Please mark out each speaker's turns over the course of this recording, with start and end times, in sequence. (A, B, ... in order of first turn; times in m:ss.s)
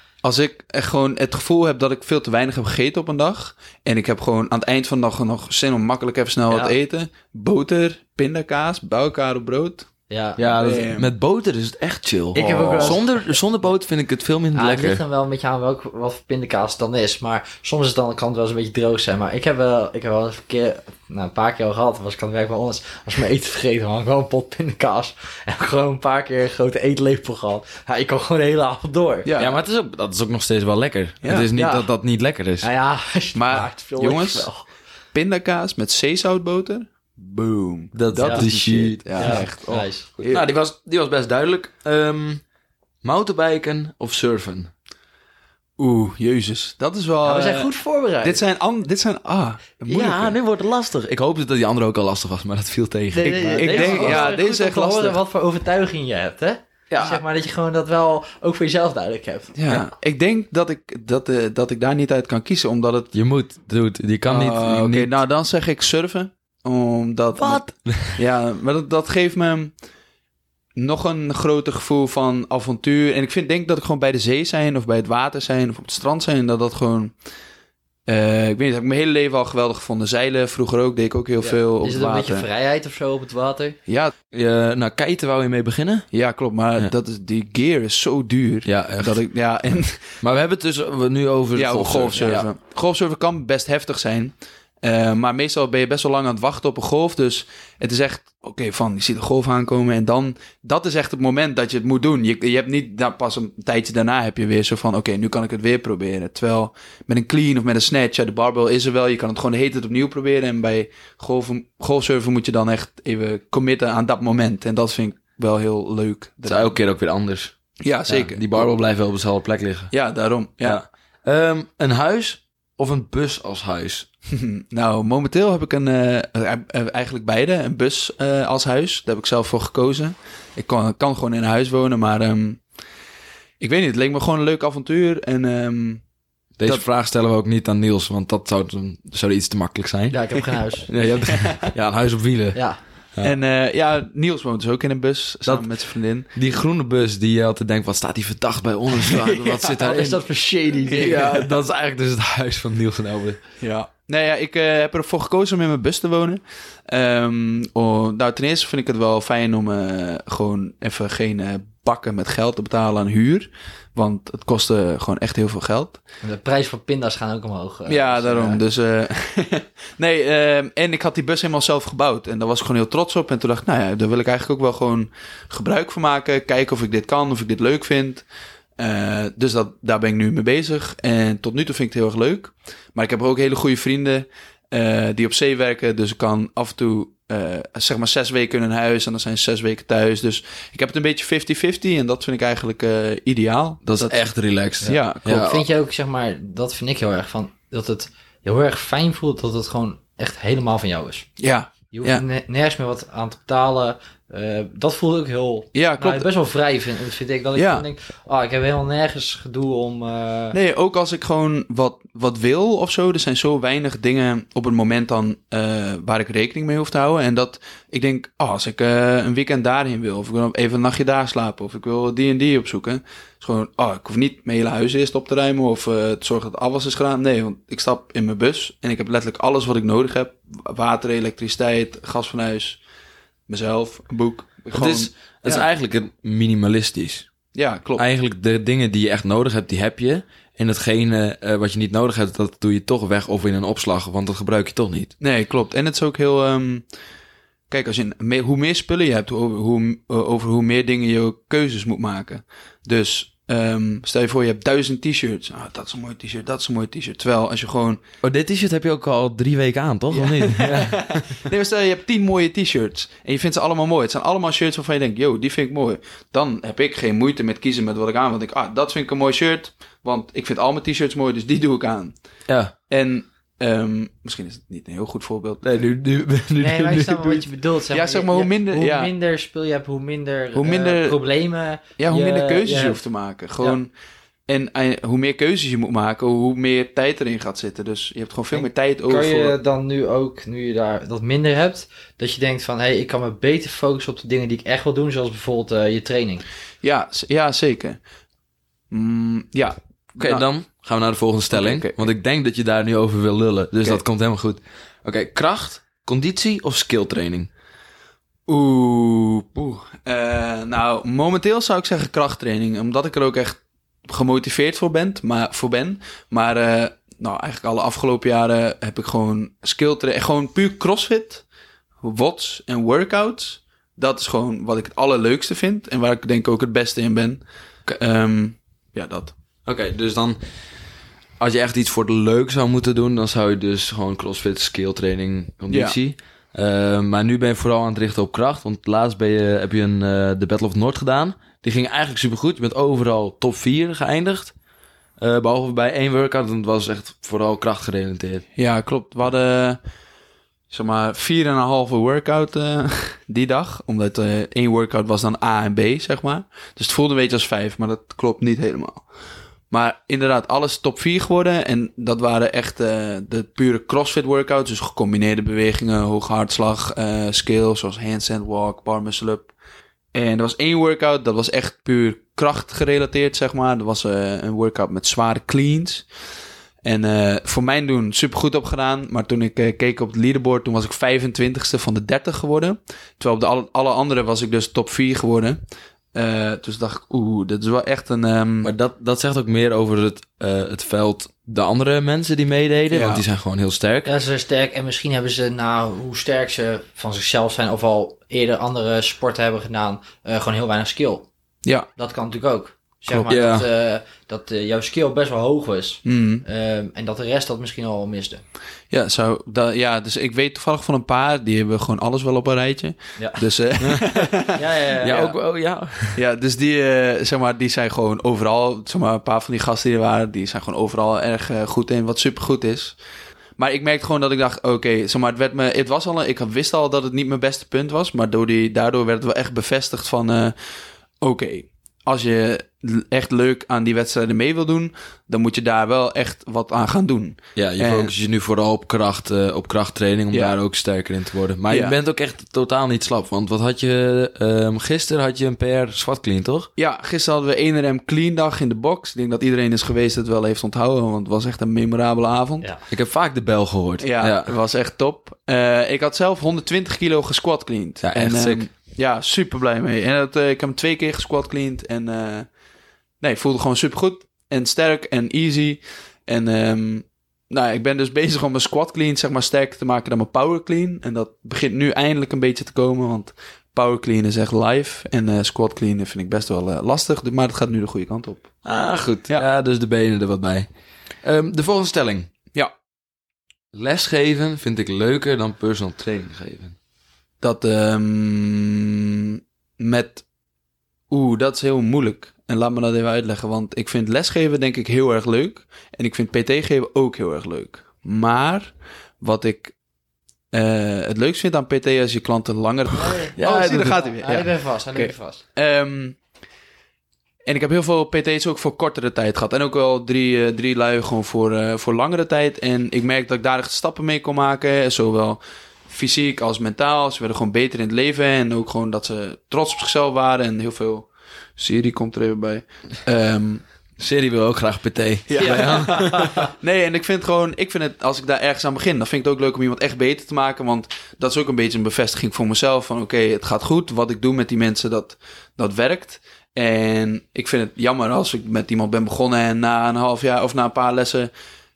0:00.2-0:09.9 A
0:06.5-0:06.7 B
0:10.1-0:10.4 B
0:10.4-0:15.0 C
0:10.5-0:11.1 A
0:12.4-0:13.1 B
0:12.4-0:13.0 A
0:14.6-0:29.3 B
0:29.2-0:29.6 A
0:29.4-0:32.7 C
0:31.2-0:31.5 A
0:31.6-0:31.9 B
0:32.6-0:34.7 B
0:33.3-0:34.5 A
0:35.1-0:40.5 A
0:37.9-0:39.5 C
0:38.2-0:38.5 B
0:39.2-0:40.1 B
0:40.2-0:42.4 C
0:43.0-0:44.7 C
0:45.8-0:47.7 A
0:47.2-0:48.4 B
0:48.2-0:50.4 A
0:49.9-0:54.3 C
0:53.1-0:59.6 B
0:53.2-0:55.2 A
0:56.9-0:57.2 C
0:59.6-1:03.1 A
1:03.1-1:05.2 C
1:04.3-1:09.7 A
1:07.4-1:08.2 C
1:10.8-1:17.2 A
1:18.1-1:22.5 A
1:21.4-1:23.8 B
1:23.9-1:24.1 A
1:24.3-1:26.1 C
1:26.1-1:30.2 A
1:28.7-1:29.2 C
1:30.2-1:32.5 C
1:31.6-1:56.7 A
1:56.5-1:57.6 C
1:57.8-1:58.7 A
1:58.1-1:59.9 C
1:59.9-2:00.8 A
2:00.6-2:04.1 C
2:04.3-2:12.6 A
2:13.6-2:16.0 A
2:16.6-2:23.4 C
2:20.1-2:21.1 B
2:22.6-2:22.8 B
2:23.2-2:26.3 A
2:25.5-2:30.2 C
2:29.0-2:29.8 A
2:29.8-2:31.2 B
2:30.9-2:31.6 A
2:30.9-2:33.5 C
2:33.6-2:46.0 A
2:46.2-2:48.6 B
2:47.9-2:58.2 A
2:58.8-3:14.2 A
3:13.8-3:15.7 C
3:14.8-3:21.3 B
3:14.8-3:15.4 A
3:21.4-3:22.2 A
3:21.9-3:30.6 B
3:25.7-3:26.3 A
3:27.6-3:27.8 A
3:30.5-3:52.8 A
3:53.5-3:55.1 A
3:54.7-3:57.3 C
3:57.5-3:58.0 A
3:58.0-4:05.1 C
4:05.2-4:06.9 A
4:07.7-4:18.0 A
4:18.2-4:21.4 C
4:20.1-4:32.2 A
4:32.5-4:32.7 C
4:32.9-4:35.6 A
4:35.6-4:37.5 C
4:36.6-4:43.0 B
4:37.9-4:39.1 A
4:40.5-4:41.2 A
4:42.0-4:43.9 A
4:44.5-4:49.6 A
4:48.5-4:56.4 B
4:56.8-4:58.0 A
4:58.9-5:00.5 A
5:00.2-5:07.5 C
5:01.5-5:02.1 A
5:08.5-5:21.4 A
5:22.0-5:29.3 A
5:29.7-5:30.4 C
5:31.4-5:44.5 C
5:35.7-5:36.0 A
5:45.2-5:48.4 C
5:48.6-5:49.8 A
5:50.7-5:59.0 A
5:59.7-6:09.5 A
6:10.1-6:16.1 A
6:16.8-6:25.6 A
6:26.1-6:28.7 A
6:28.6-6:34.1 C
6:32.9-6:33.2 A
6:34.1-6:41.3 B
6:42.0-6:48.4 B
6:43.3-6:43.7 C
6:46.0-6:46.4 A
6:48.9-6:54.6 A
6:53.2-6:53.4 B
6:53.8-6:54.4 C
6:54.6-6:55.4 B
6:55.0-6:56.2 C
6:56.2-7:03.0 A
7:03.6-7:18.1 A
7:17.6-7:26.7 C
7:20.3-7:20.6 A
7:21.7-7:22.0 A
7:26.8-7:32.7 A
7:32.9-7:34.5 C
7:34.0-7:42.5 A
7:38.0-7:38.7 C
7:43.2-7:58.6 A
7:58.6-8:02.3 C
8:03.7-8:06.8 C
8:07.4-8:10.2 A
8:11.1-8:19.8 A
8:20.5-8:26.2 A
8:22.9-8:25.4 B
8:23.4-8:24.0 C
8:27.5-8:43.6 A
8:44.0-8:46.5 C
8:45.3-9:01.3 A
8:45.4-8:46.5 B